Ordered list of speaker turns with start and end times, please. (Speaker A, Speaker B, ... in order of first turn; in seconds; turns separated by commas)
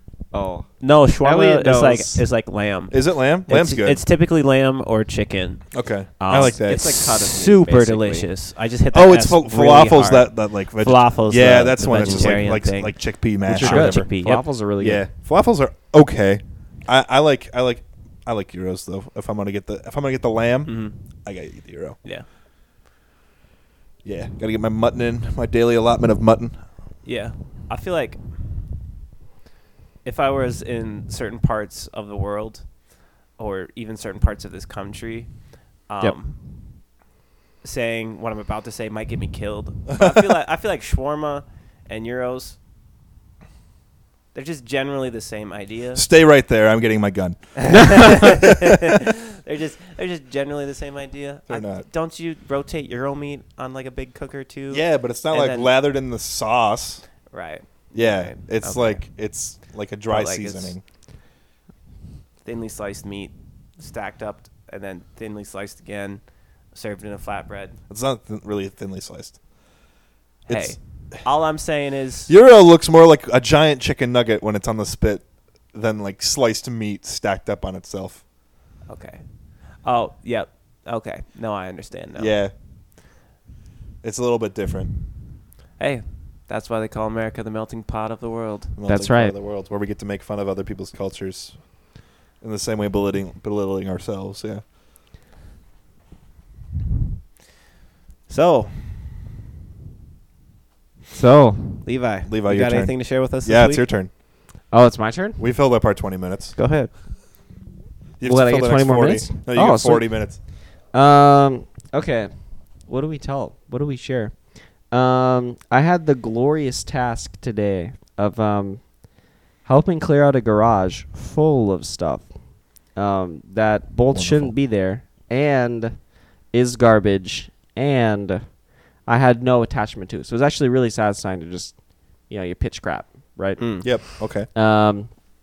Speaker A: 0.3-0.7, Speaker B: 0.8-13.0, Speaker A: 1.2-2.3, Speaker C: 2.9-4.0, Speaker C: 5.7-6.8, Speaker A: 6.3-8.3, Speaker C: 8.9-14.1, Speaker A: 12.0-12.4, Speaker B: 13.5-14.4, Speaker A: 13.5-15.1, Speaker C: 14.8-22.0, Speaker B: 20.6-21.0, Speaker C: 24.0-26.6, Speaker B: 27.0-28.2, Speaker B: 30.0-32.7, Speaker B: 33.4-35.3, Speaker B: 35.9-36.4, Speaker B: 37.6-42.6, Speaker C: 39.9-40.3, Speaker B: 44.3-46.0, Speaker C: 45.9-48.4, Speaker B: 47.6-55.7, Speaker C: 51.5-51.9, Speaker C: 54.7-57.0, Speaker B: 57.3-59.0, Speaker C: 57.9-60.8, Speaker B: 60.1-60.8, Speaker B: 62.4-67.8, Speaker C: 67.9-69.4, Speaker C: 70.5-71.2, Speaker B: 70.5-72.3, Speaker C: 72.3-78.2, Speaker B: 78.9-79.2, Speaker B: 79.8-82.3, Speaker C: 82.2-82.5, Speaker C: 84.0-84.9, Speaker B: 85.8-88.8, Speaker C: 88.8-94.6, Speaker A: 88.9-89.3, Speaker B: 98.3-99.3, Speaker A: 101.1-101.9, Speaker B: 101.8-103.8, Speaker C: 102.3-104.1, Speaker A: 104.7-105.4, Speaker C: 105.4-106.5, Speaker B: 106.6-106.9, Speaker C: 108.2-110.4, Speaker A: 108.2-110.4, Speaker A: 110.9-112.3, Speaker A: 112.8-119.0, Speaker A: 119.6-122.3, Speaker A: 122.9-131.8, Speaker C: 124.1-124.5, Speaker A: 132.3-135.2, Speaker B: 133.6-133.9, Speaker C: 133.8-134.5